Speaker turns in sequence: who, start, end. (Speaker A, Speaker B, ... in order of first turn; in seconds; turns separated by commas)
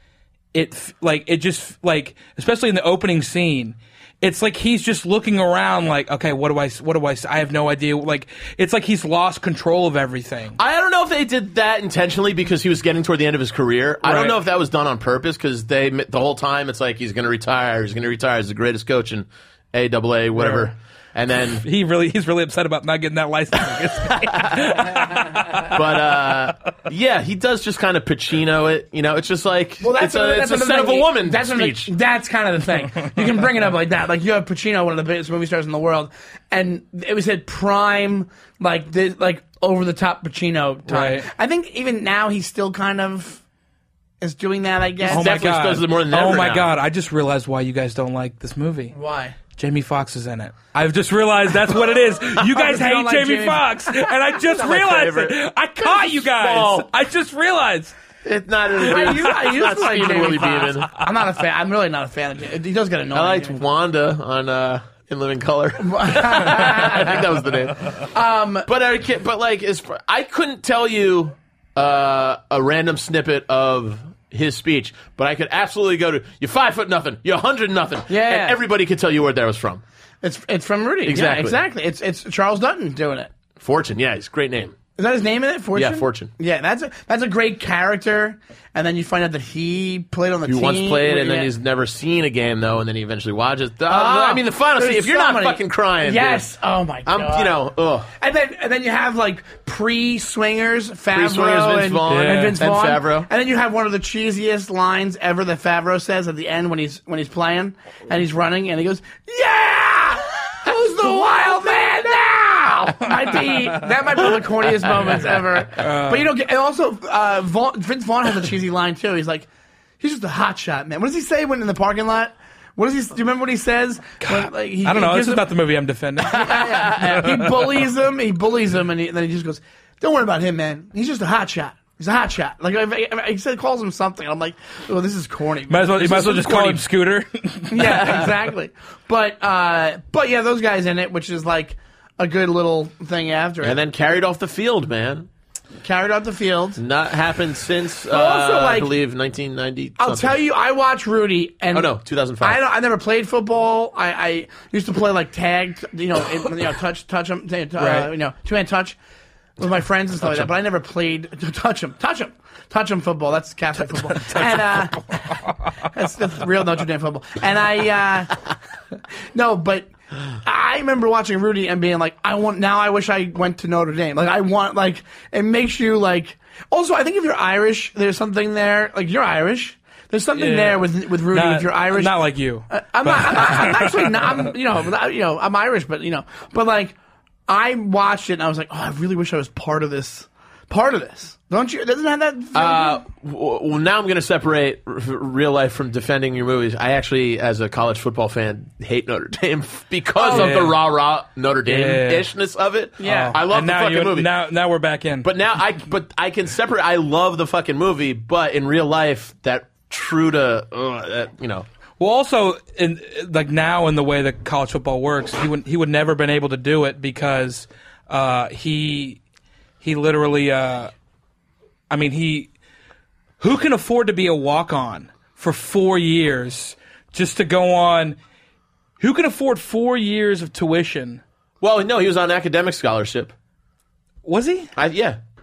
Speaker A: 0.5-10.6, Speaker B: 10.6-21.6, Speaker A: 14.1-14.4, Speaker A: 20.4-20.7, Speaker A: 21.6-26.0, Speaker B: 24.1-24.7, Speaker B: 25.7-31.9, Speaker C: 29.8-43.4, Speaker A: 40.9-41.3, Speaker C: 44.2-45.3, Speaker A: 45.1-48.9, Speaker B: 45.1-46.7, Speaker C: 48.9-49.4, Speaker A: 49.6-58.0, Speaker C: 52.3-54.1, Speaker B: 54.5-56.9, Speaker B: 58.2-61.0, Speaker C: 58.8-63.6, Speaker B: 63.1-68.0, Speaker C: 65.8-67.4, Speaker C: 68.1-68.7, Speaker B: 68.7-79.8, Speaker C: 78.1-78.6, Speaker C: 80.2-83.3, Speaker B: 81.0-81.6, Speaker B: 83.6-84.8, Speaker C: 85.0-91.5, Speaker B: 85.8-86.3, Speaker B: 90.5-96.5, Speaker C: 93.9-119.5, Speaker B: 97.1-98.1, Speaker B: 101.1-103.3, Speaker A: 102.1-102.6, Speaker A: 115.8-116.3, Speaker C: 120.0-125.5, Speaker A: 124.2-127.7, Speaker C: 126.2-136.6, Speaker A: 135.7-138.3, Speaker B: 136.0-136.8, Speaker C: 137.7-143.8, Speaker B: 143.6-145.3, Speaker C: 145.8-146.8, Speaker B: 146.8-150.4, Speaker C: 148.1-148.9, Speaker C: 150.0-159.0, Speaker B: 151.7-152.6, Speaker A: 157.8-158.1, Speaker C: 159.6-168.4, Speaker A: 164.1-164.8, Speaker C: 169.3-182.2, Speaker A: 180.4-184.5, Speaker C: 182.7-186.9, Speaker C: 187.5-193.0, Speaker B: 192.5-204.3, Speaker C: 200.2-200.6, Speaker A: 200.3-200.8, Speaker A: 201.7-202.3, Speaker C: 203.0-203.4, Speaker A: 203.0-205.3, Speaker B: 205.2-211.7, Speaker A: 212.0-219.2, Speaker A: 219.8-220.9, Speaker A: 221.9-222.5, Speaker A: 223.4-228.2, Speaker A: 229.0-231.2, Speaker B: 231.6-233.3, Speaker A: 234.2-234.7, Speaker B: 234.8-235.2